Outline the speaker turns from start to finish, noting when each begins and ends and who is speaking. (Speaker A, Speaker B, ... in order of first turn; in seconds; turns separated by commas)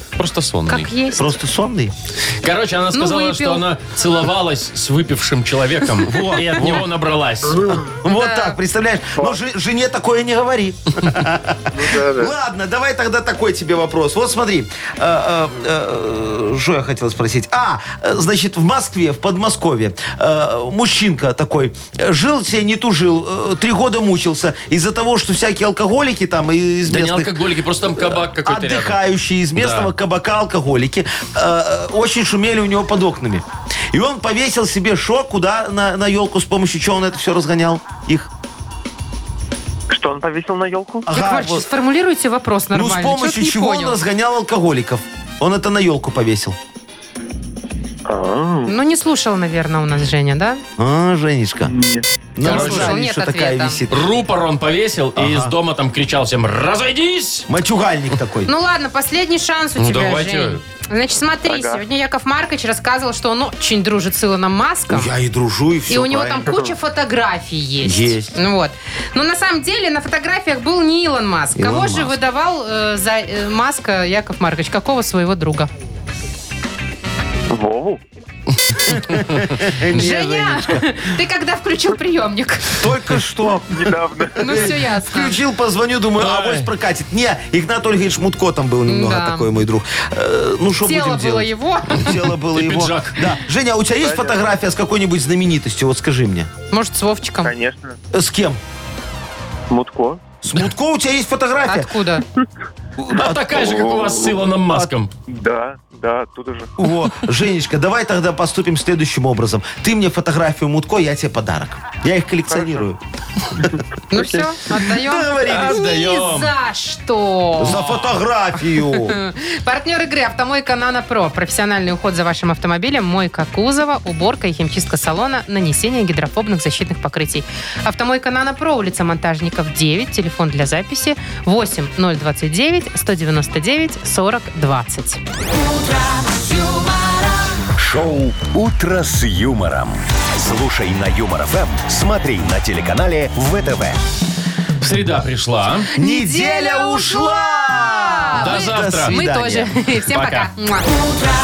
Speaker A: 0.2-0.9, Speaker B: 0.7-1.3, Speaker C: 1.1-1.9, Speaker A: 2.4-7.7, Speaker B: 2.9-3.6, Speaker C: 6.0-6.8, Speaker C: 7.5-27.4, Speaker B: 8.1-8.6, Speaker D: 11.7-12.3, Speaker A: 26.9-29.0, Speaker C: 27.9-38.3, Speaker A: 29.6-29.9, Speaker D: 39.9-41.0, Speaker C: 41.0-41.6, Speaker B: 41.1-44.0, Speaker C: 42.7-46.6, Speaker D: 48.0-48.7, Speaker B: 48.6-50.6, Speaker C: 50.8-51.7, Speaker D: 51.7-52.0, Speaker C: 52.3-54.1, Speaker A: 52.4-53.0, Speaker B: 52.4-53.8, Speaker A: 53.9-57.5, Speaker C: 55.1-55.5, Speaker C: 57.5-58.5, Speaker B: 58.5-65.1, Speaker A: 59.8-60.6, Speaker D: 61.5-61.8, Speaker C: 64.9-66.5, Speaker B: 65.9-75.7, Speaker C: 67.8-68.3, Speaker C: 71.5-72.2, Speaker D: 77.5-78.0, Speaker C: 78.9-81.0, Speaker A: 79.0-79.5, Speaker B: 79.9-82.9, Speaker C: 82.7-96.5, Speaker D: 83.8-84.3, Speaker B: 84.4-85.4, Speaker A: 86.2-86.7, Speaker B: 88.9-89.5, Speaker B: 90.8-92.2, Speaker A: 92.5-93.2, Speaker D: 94.0-94.3, Speaker B: 96.7-97.5, Speaker D: 97.4-98.0, Speaker C: 98.1-98.6, Speaker D: 99.7-100.2, Speaker C: 100.4-101.9, Speaker B: 101.6-102.2, Speaker C: 103.0-103.6, Speaker A: 103.1-105.1, Speaker D: 103.6-104.3, Speaker D: 105.3-106.7, Speaker C: 106.8-113.0, Speaker C: 113.6-115.8, Speaker B: 114.1-117.8, Speaker A: 115.4-116.5, Speaker A: 117.6-118.2, Speaker C: 117.6-119.2, Speaker B: 118.9-135.2, Speaker E: 137.8-144.0, Speaker A: 144.8-145.9, Speaker C: 145.9-149.7, Speaker B: 146.0-150.9, Speaker A: 148.3-149.2, Speaker A: 150.1-150.5